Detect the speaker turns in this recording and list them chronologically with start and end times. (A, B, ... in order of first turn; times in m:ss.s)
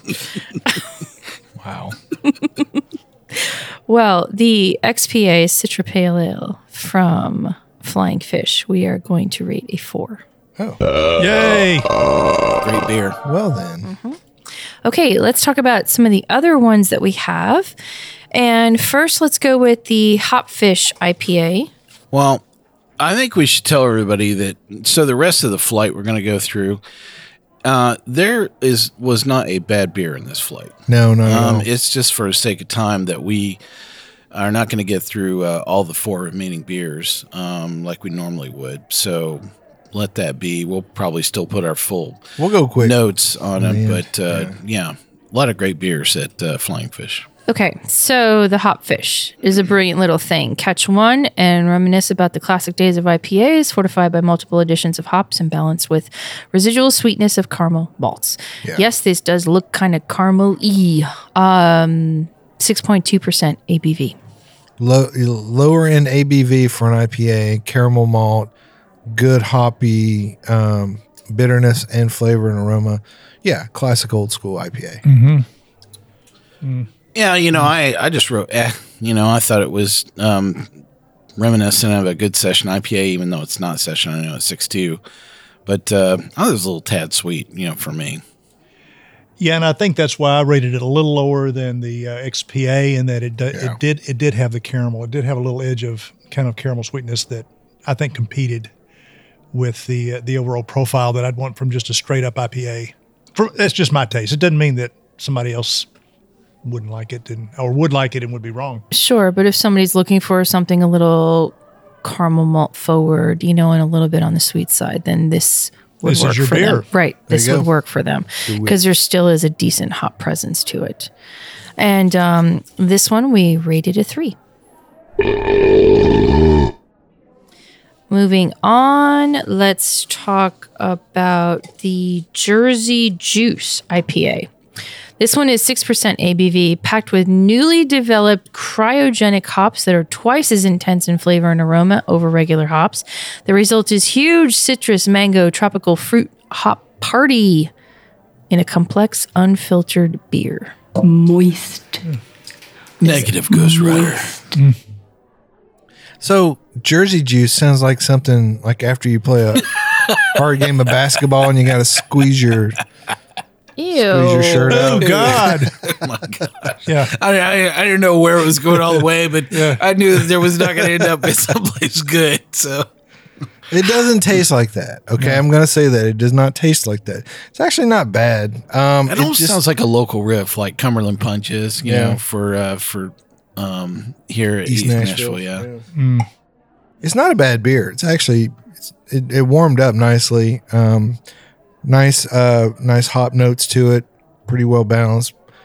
0:01.6-0:02.0 A
0:03.4-0:10.2 B
0:11.2-0:11.9 C
0:12.6-0:13.2 D
0:13.2-0:13.9 A
0:13.8-0:14.2 B
0:14.8-0:17.8 B
0:18.3-0:21.7 B
0:22.1-0:22.4 D
0:23.0-0:26.8 D
0:27.6-0:33.6 D
0:30.9-0:31.7 A
0:34.3-0:42.2 D
0:42.4-0:43.0 A
0:42.8-0:47.3 D
0:43.6-0:44.5 A
0:47.5-1:04.2 B
1:04.8-1:08.5 A
1:09.1-1:15.0 A
1:15.0-1:15.5 C
1:16.6-1:16.9 C
1:17.2-1:20.7 D
1:21.4-1:25.0 D
1:25.7-1:28.2 D
1:29.4-1:38.7 C
1:39.5-1:45.9 C
1:46.6-1:48.8 C
1:48.9-2:01.1 B
1:56.0-1:56.9 C
1:57.3-1:57.7 A
1:58.5-1:58.8 A
2:01.8-2:04.4 B
2:08.1-2:14.5 B
2:15.2-2:27.7 B
2:28.5-2:30.8 B
2:31.0-2:32.1 E
2:33.0-2:34.4 D
2:33.1-2:34.6 E
2:36.2-2:39.7 A
2:40.0-2:40.3 D
2:40.2-2:42.8 A
2:43.8-2:45.0 B
2:44.1-2:45.7 A
2:44.7-2:45.8 C
2:45.1-2:52.9 D
2:46.9-2:47.2 C
2:49.5-2:49.8 C
2:53.7-2:59.6 A
2:59.1-3:05.7 D
3:01.8-3:02.2 A
3:04.7-3:05.8 A
3:06.0-3:06.3 C
3:07.0-3:11.2 A
3:11.8-3:15.4 A